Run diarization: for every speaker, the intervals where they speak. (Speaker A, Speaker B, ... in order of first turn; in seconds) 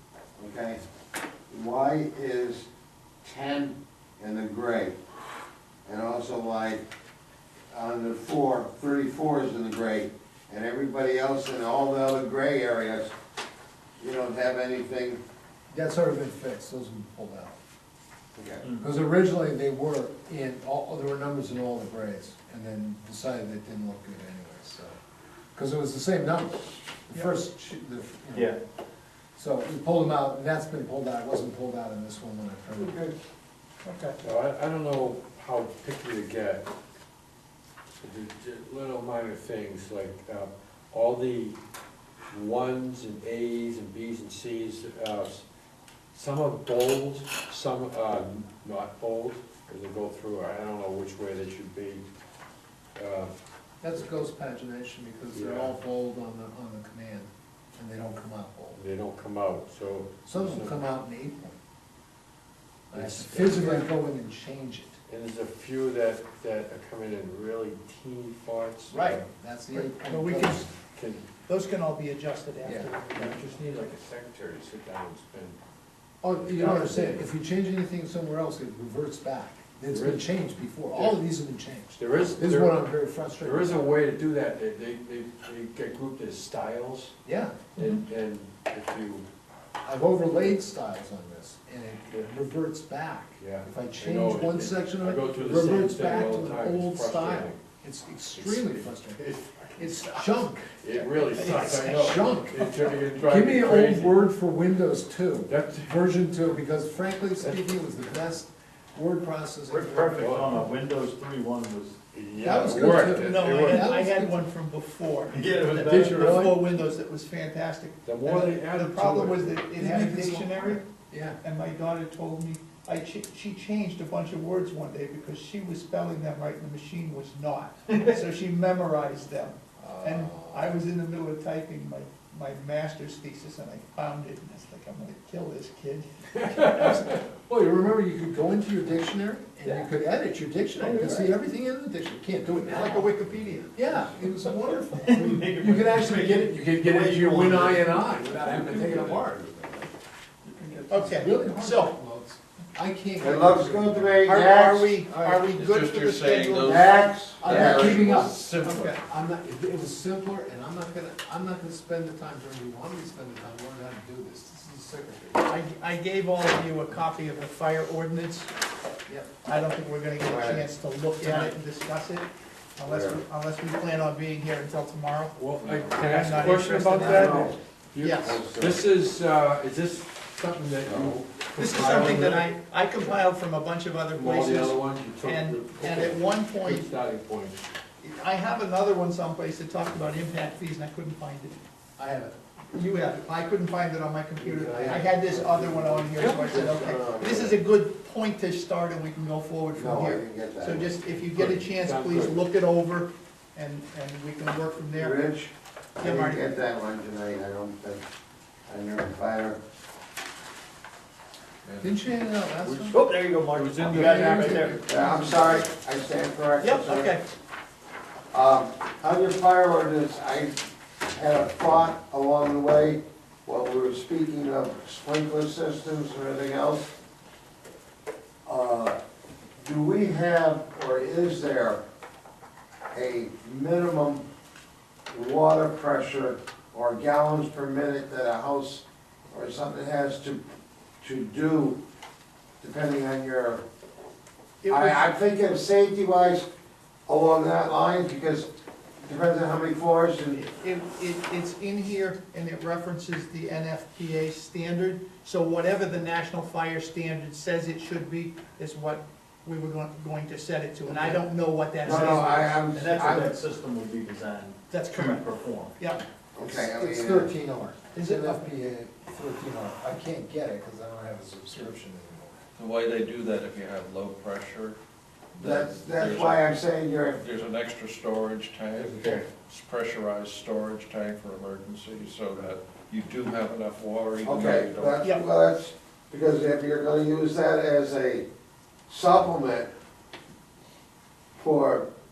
Speaker A: 0.4-0.8, 1.5-2.7, 3.2-5.0, 5.8-6.8, 7.7-13.1, 14.0-15.2, 18.4-18.6, 153.2-155.0, 156.7-158.1, 170.2-170.7, 171.2-171.5, 172.9-173.2, 177.0-177.6, 178.2-178.8, 180.8-181.2, 195.5-197.6, 199.8-201.0, 205.0-208.0, 208.7-209.6, 214.8-217.2, 218.3-226.9, 228.4-229.0, 229.6-231.8, 232.9-234.3, 235.1-240.4, 241.0-241.8, 242.6-243.6, 244.7-246.5, 247.1-248.5, 249.0-250.4, 261.8-263.4, 266.4-267.3, 275.4-277.2, 278.8-279.2, 284.2-288.3, 288.9-289.7, 291.4-291.9
Speaker B: 15.7-17.6, 18.8-25.0, 25.6-28.5, 29.4-33.0, 53.8-58.8, 60.3-61.6, 62.9-65.0, 69.0-70.7, 72.6-72.9, 76.2-84.0, 87.2-87.7, 89.8-99.3, 99.8-110.6, 112.4-114.4, 115.8-116.7, 119.8-121.4, 129.8-130.8, 136.5-149.9, 150.7-154.2, 155.1-155.4, 157.4-165.5, 192.0-192.4, 194.4-196.1, 211.8-213.0, 213.9-214.8, 266.4-272.4
Speaker C: 18.6-18.9, 109.7-112.1, 115.3-116.5, 140.8-141.2, 144.8-149.3, 212.8-214.8, 261.9-262.2, 262.7-265.8
Speaker D: 33.8-34.2, 68.9-69.2, 69.7-70.7, 71.5-73.4, 76.6-76.9, 87.8-88.0, 113.1-120.8, 121.4-136.1, 140.8-141.2, 142.5-143.7, 150.9-151.9, 154.3-157.1, 165.5-168.5, 169.4-178.4, 181.6-186.8, 188.0-191.6, 192.7-205.2, 206.0-206.4, 216.6-217.2, 244.6-245.1, 250.3-263.2, 264.7-265.2, 265.8-266.0, 267.9-268.4
Speaker E: 34.2-36.6, 38.0-41.6, 42.3-45.4, 46.1-52.0, 53.0-53.3, 55.3-55.8, 58.8-60.8, 62.9-63.9, 65.1-69.2, 70.9-71.3, 73.1-75.6, 76.5-77.2, 79.9-81.2, 81.9-82.8, 83.4-87.2, 87.8-89.3, 93.4-97.6, 98.3-104.2, 105.5-106.0, 107.4-107.7, 110.2-110.7, 112.2-113.9, 116.0-116.6, 118.0-119.6, 136.4-137.2, 175.4-182.5, 184.1-187.6, 201.3-202.4, 213.5-214.8
Speaker F: 155.4-158.9, 272.6-274.8, 275.3-276.6, 277.2-285.0